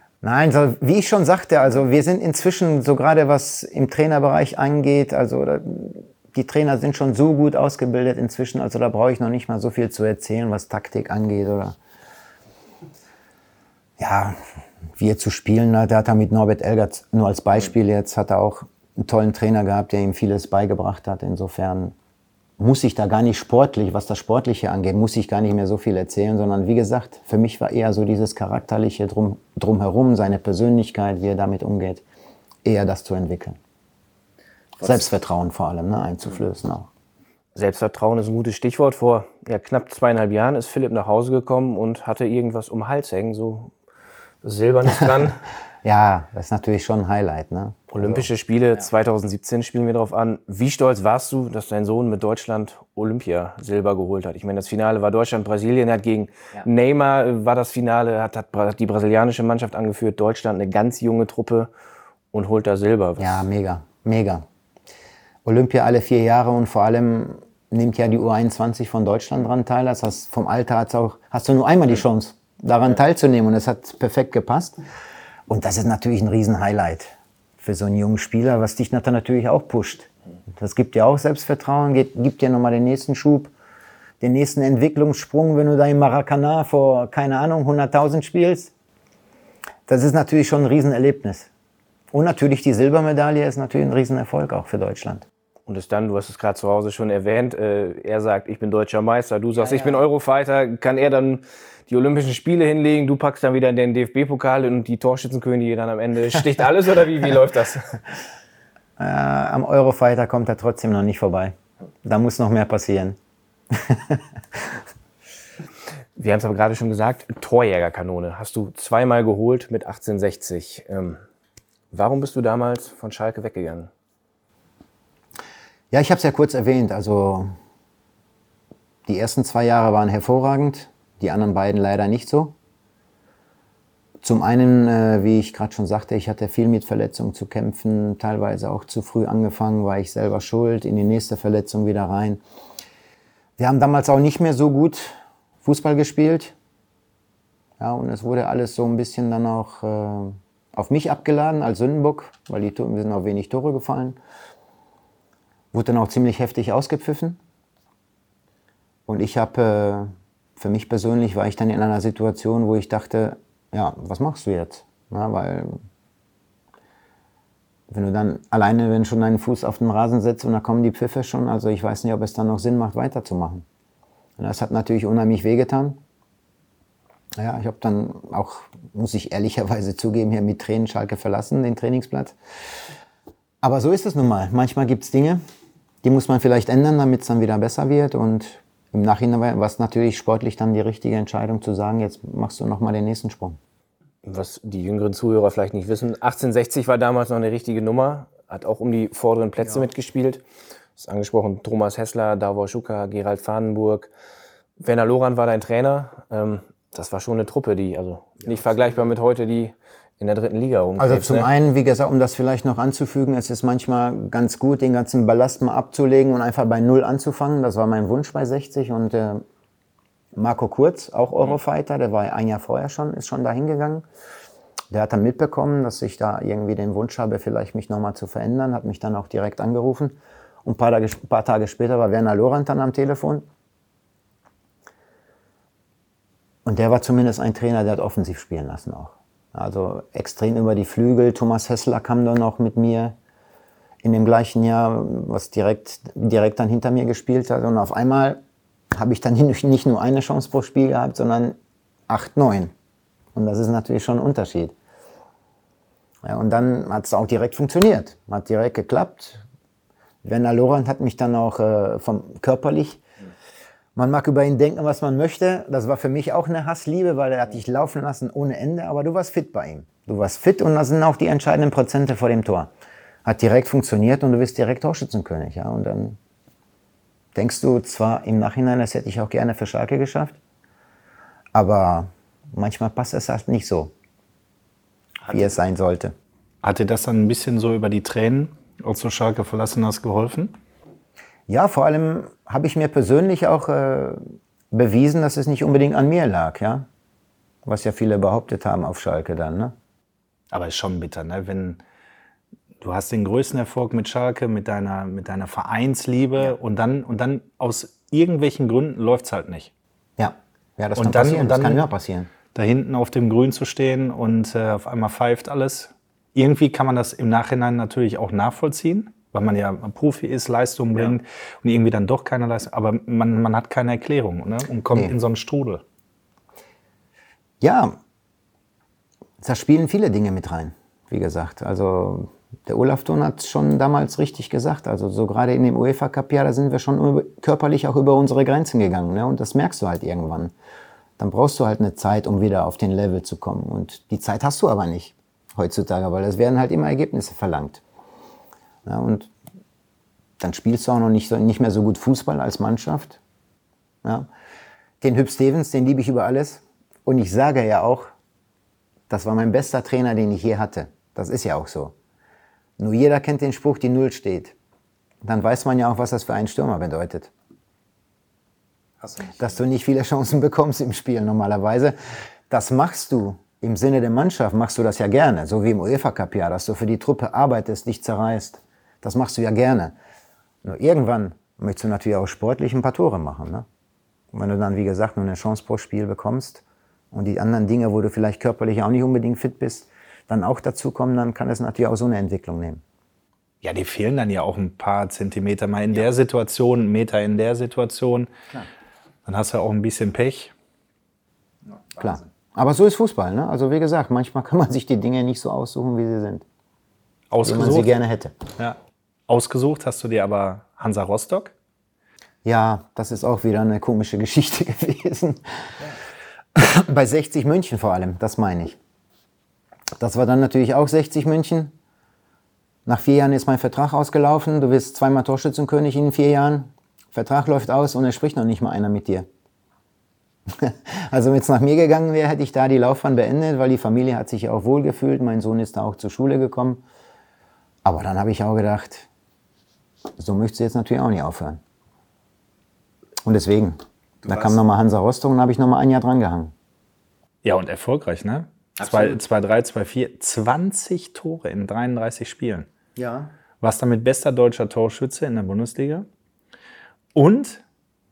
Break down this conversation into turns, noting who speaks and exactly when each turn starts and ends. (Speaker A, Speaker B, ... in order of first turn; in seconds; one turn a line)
Speaker A: 0.2-11.8
Speaker A: 14.0-14.4
Speaker A: 15.0-21.9
Speaker A: 22.6-32.0
Speaker A: 32.6-33.6
Speaker A: 34.8-36.9
Speaker B: 37.5-43.7
Speaker B: 44.4-45.4
Speaker A: 45.8-48.2
Speaker B: 47.9-61.7
Speaker B: 62.3-63.3
Speaker A: 63.2-64.5
Speaker A: 65.5-74.8
Speaker A: 75.5-83.5
Speaker A: 84.2-88.7
Speaker A: 89.9-91.5
Speaker A: 92.1-95.2
Speaker B: 95.7-108.0
Speaker A: 99.6-100.0
Speaker A: 109.0-113.2
Speaker A: 113.7-114.2
Speaker B: 116.2-121.2
Speaker B: 121.9-123.9
Speaker A: 125.9-127.5
Speaker A: 129.1-132.6
Speaker A: 134.2-142.4
Speaker A: 143.6-146.6
Speaker A: 147.8-154.2
Speaker A: 155.7-157.4
Speaker A: 159.1-165.8
Speaker A: 167.9-173.7
Speaker A: 174.4-176.0
Speaker A: 177.3-182.4
Speaker A: 183.6-185.4
Speaker A: 186.0-193.6
Speaker B: 194.2-200.4
Speaker B: 201.0-204.1
Speaker B: 204.8-211.5
Speaker A: 211.0-219.4
Speaker A: 220.3-224.1
Speaker A: 224.9-233.5
Speaker A: 236.7-243.2
Speaker A: 244.0-248.4
Speaker A: 248.9-251.6
Speaker A: 252.1-252.7
Speaker A: 253.3-254.8
Speaker A: 256.2-259.4
Speaker A: 260.2-263.0
Speaker A: 264.0-272.7
Speaker A: 273.2-276.2
Speaker A: 277.4-280.4
Speaker A: 281.5-283.9
Speaker A: 285.3-286.2
Speaker C: 286.6-290.6
Speaker A: 291.5-296.9
Speaker A: 297.6-299.8
Speaker C: 300.5-301.8
Speaker C: 302.8-309.7
Speaker A: 310.2-312.3
Speaker C: 311.0-311.9
Speaker C: 312.5-325.8
Speaker A: 327.6-328.0
Speaker A: 329.4-340.5
Speaker A: 341.2-347.8
Speaker A: 348.9-349.3
Speaker A: 350.4-353.2
Speaker A: 354.0-354.3
Speaker A: 355.0-358.1
Speaker A: 359.1-361.9
Speaker A: 362.8-364.6
Speaker A: 365.2-367.3
Speaker A: 369.2-372.0
Speaker A: 372.5-379.9
Speaker A: 380.6-383.7
Speaker A: 384.3-392.8
Speaker C: 393.6-398.3
Speaker C: 399.3-400.5
Speaker A: 402.0-406.4
Speaker C: 407.3-407.9
Speaker A: 407.4-408.4
Speaker C: 408.6-411.5
Speaker A: 412.4-415.9
Speaker A: 416.6-418.8
Speaker A: 420.0-421.7
Speaker A: 422.9-429.3
Speaker A: 430.5-436.8
Speaker A: 437.8-439.1
Speaker A: 440.2-441.6
Speaker A: 443.2-446.5
Speaker C: 447.4-452.7
Speaker A: 448.8-449.2
Speaker A: 453.0-453.3
Speaker C: 453.6-456.1
Speaker C: 457.1-457.6